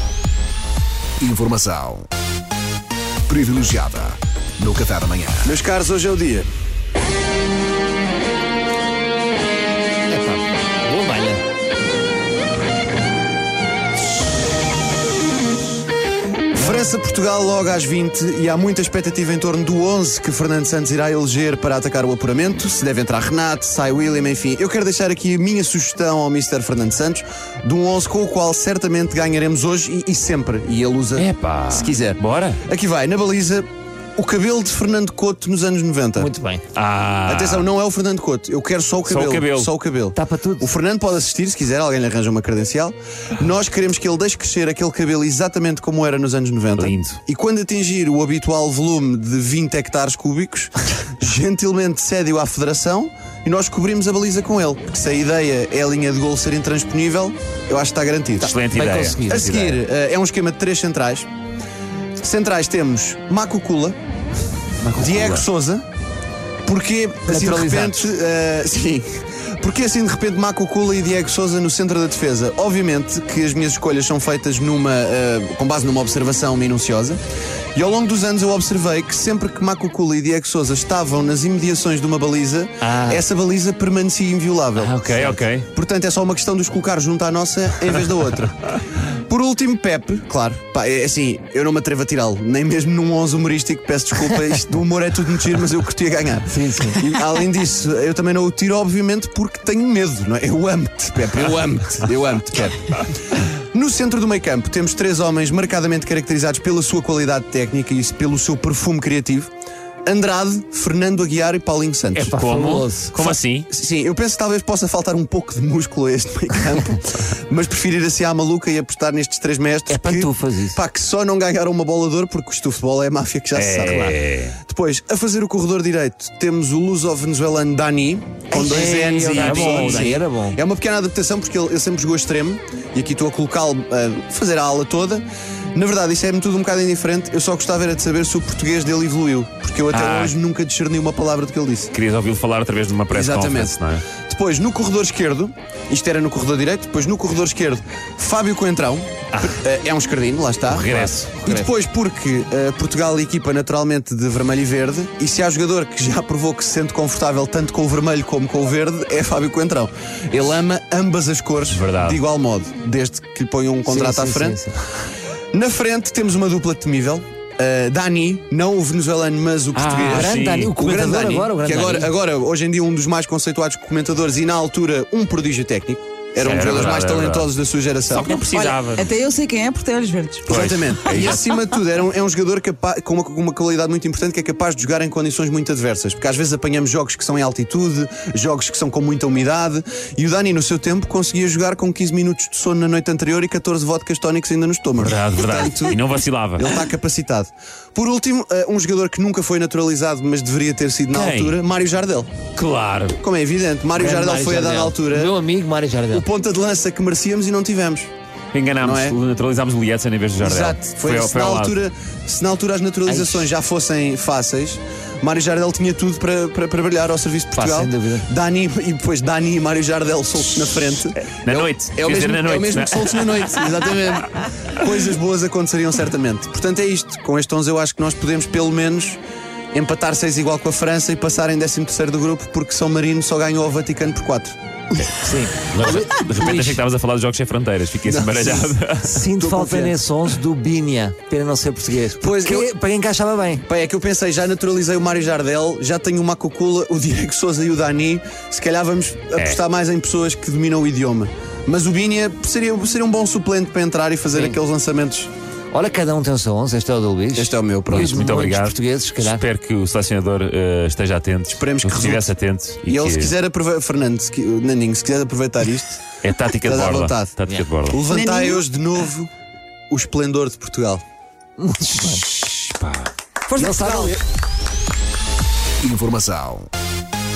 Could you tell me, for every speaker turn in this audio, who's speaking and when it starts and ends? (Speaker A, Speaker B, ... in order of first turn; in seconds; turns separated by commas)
Speaker A: 1.2-2.1, Speaker A: 3.3-5.5, Speaker B: 5.4-6.5, Speaker C: 10.1-11.4, Speaker B: 16.5-36.3, Speaker D: 31.1-32.6, Speaker C: 36.1-36.6, Speaker D: 36.7-37.7, Speaker B: 37.2-58.5, Speaker D: 39.0-39.7, Speaker C: 40.1-40.7, Speaker D: 46.8-47.2, Speaker D: 58.4-59.8, Speaker C: 58.4-59.5, Speaker B: 59.3-61.3, Speaker B: 62.2-64.0, Speaker D: 64.8-65.5, Speaker B: 64.9-65.8, Speaker B: 66.6-77.2, Speaker C: 67.2-68.0, Speaker B: 77.7-103.2, Speaker C: 82.8-83.2, Speaker D: 84.8-85.7, Speaker C: 85.0-85.4, Speaker C: 96.5-97.0, Speaker B: 103.7-109.5, Speaker B: 110.0-112.3, Speaker C: 112.1-113.1, Speaker D: 112.2-113.7, Speaker B: 113.2-141.9, Speaker C: 119.9-120.8, Speaker D: 123.5-124.6, Speaker C: 128.5-130.6, Speaker D: 129.3-130.1, Speaker D: 139.9-140.4, Speaker D: 141.9-144.1, Speaker B: 143.1-164.6, Speaker D: 149.3-149.6, Speaker D: 150.7-151.3, Speaker C: 150.8-151.7, Speaker D: 161.7-162.2, Speaker C: 163.8-164.8, Speaker B: 165.5-178.4, Speaker C: 169.7-172.1, Speaker D: 169.9-170.7, Speaker D: 176.4-177.5, Speaker D: 178.1-179.2, Speaker E: 178.3-180.5, Speaker D: 180.4-181.4, Speaker B: 180.4-196.0, Speaker E: 181.1-181.6, Speaker D: 195.0-196.8, Speaker B: 196.6-202.3, Speaker D: 201.1-201.6, Speaker D: 202.6-203.2, Speaker B: 203.2-205.3, Speaker C: 203.9-206.2, Speaker B: 206.1-208.1, Speaker D: 208.5-211.8, Speaker B: 208.8-209.2, Speaker B: 210.4-229.2, Speaker C: 213.1-213.5, Speaker C: 217.5-218.3, Speaker D: 221.3-223.8, Speaker B: 229.7-234.6, Speaker C: 235.0-236.8, Speaker D: 235.7-239.2, Speaker B: 238.0-238.8, Speaker C: 239.0-243.6, Speaker B: 239.3-240.0, Speaker B: 242.2-242.7, Speaker B: 243.7-255.3, Speaker D: 249.3-249.6, Speaker C: 254.3-254.6, Speaker C: 255.7-259.4, Speaker B: 257.3-258.1, Speaker D: 257.9-263.3, Speaker B: 261.5-262.3, Speaker B: 262.9-266.0, Speaker D: 266.2-268.0, Speaker B: 266.6-267.3, Speaker B: 267.9-269.3, Speaker E: 268.1-268.6, Speaker B: 269.9-271.0, Speaker C: 271.6-272.4, Speaker D: 272.7-273.1, Speaker C: 273.5-274.2, Speaker B: 273.6-274.1, Speaker A: 275.8-276.7